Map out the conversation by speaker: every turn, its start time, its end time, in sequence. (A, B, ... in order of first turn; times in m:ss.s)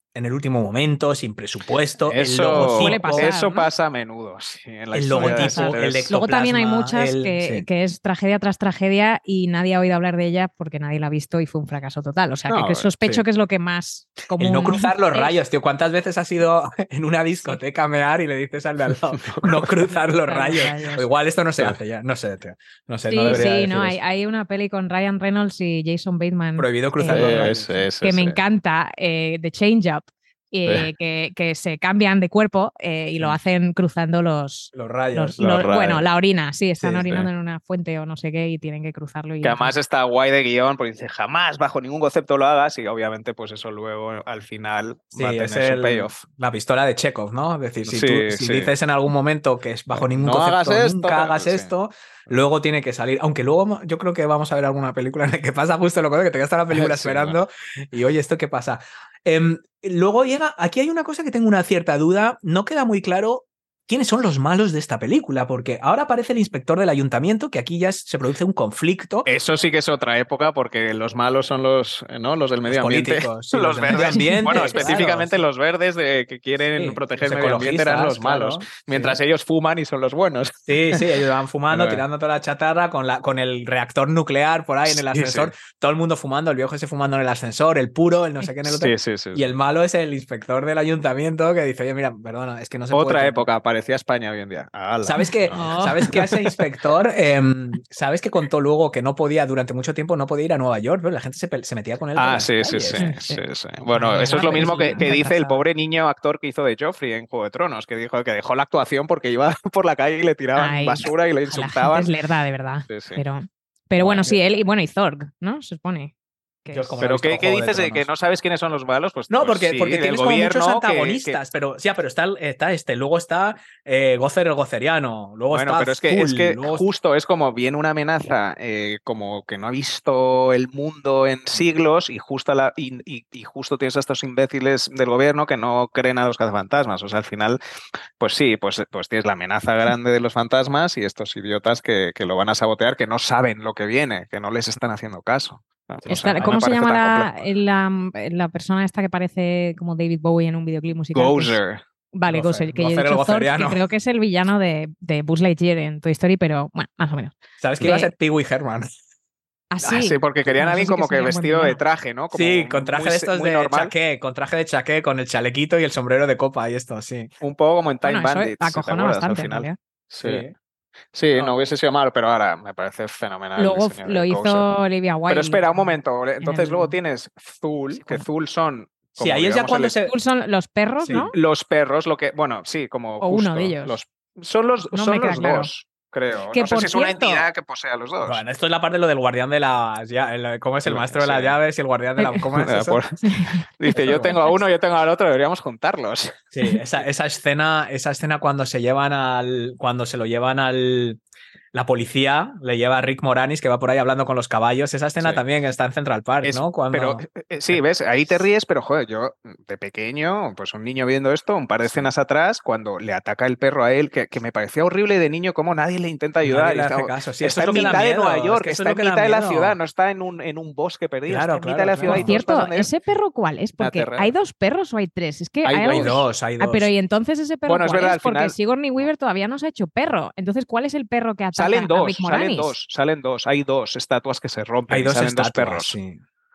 0:00.1-0:03.3 A
0:02.0-0:06.1 B
0:02.5-0:03.7 C
0:04.9-0:07.6 A
0:05.1-0:15.4 C
0:12.5-0:12.9 B
0:14.4-0:24.0 A
0:19.2-0:19.7 B
0:20.1-0:21.1 C
0:23.1-0:39.7 C
0:26.6-0:27.8 A
0:27.1-0:28.4 B
0:34.7-0:35.4 A
0:35.4-0:36.0 B
0:36.8-0:37.3 B
0:39.4-0:46.2 B
0:45.1-1:09.3 A
0:47.8-0:48.7 B
0:49.9-0:51.7 B
0:56.7-0:57.4 B
1:09.2-1:21.0 B
1:12.6-1:15.4 A
1:13.9-1:15.0 C
1:16.7-1:19.2 A
1:20.7-1:33.4 A
1:21.7-1:22.0 B
1:24.9-1:25.5 B
1:28.6-1:29.5 B
1:32.9-1:36.5 B
1:35.0-1:43.1 A
1:35.5-1:36.1 C
1:42.2-1:52.1 B
1:43.0-1:43.4 C
1:43.9-1:45.6 C
1:44.1-1:45.1 A
1:50.6-1:56.1 C
1:52.9-1:53.2 B
1:54.0-1:54.3 B
1:56.6-1:57.0 C
1:56.7-1:58.1 A
1:57.0-2:01.4 B
1:59.3-2:06.8 A
2:05.5-2:17.6 B
2:18.2-2:27.4 B
2:26.1-2:31.6 C
2:26.3-2:26.6 A
2:31.1-2:31.8 B
2:32.1-2:38.1 C
2:32.3-2:33.8 A
2:37.6-2:38.9 A
2:39.7-2:41.8 C
2:39.8-2:43.9 B
2:42.3-2:47.3 A
2:47.4-2:50.4 B
2:48.0-2:49.8 C
2:50.2-2:50.5 A
2:51.1-2:54.6 B
2:53.6-2:56.9 C
2:55.3-3:00.0 B
2:57.9-2:58.2 C
2:59.2-3:00.1 A
3:00.0-3:01.3 C
3:01.0-3:01.3 A
3:01.1-3:08.4 B
3:03.2-3:04.0 C
3:04.9-3:05.7 C
3:06.5-3:07.4 C
3:08.2-3:13.0 A
3:10.8-3:11.6 B
3:12.2-3:12.4 C
3:12.5-3:13.1 B
3:13.2-3:14.6 C
3:13.8-3:16.4 B
3:14.0-3:14.3 A
3:16.5-3:21.2 A
3:21.7-3:27.8 A
3:26.4-3:42.9 B
3:36.4-3:39.8 A
3:41.3-3:42.4 A
3:42.0-3:52.7 C
3:43.8-3:44.3 B
3:45.6-3:46.2 B
3:45.9-3:46.9 A
3:47.6-3:48.6 B
3:51.5-3:55.9 B
3:54.9-3:56.2 A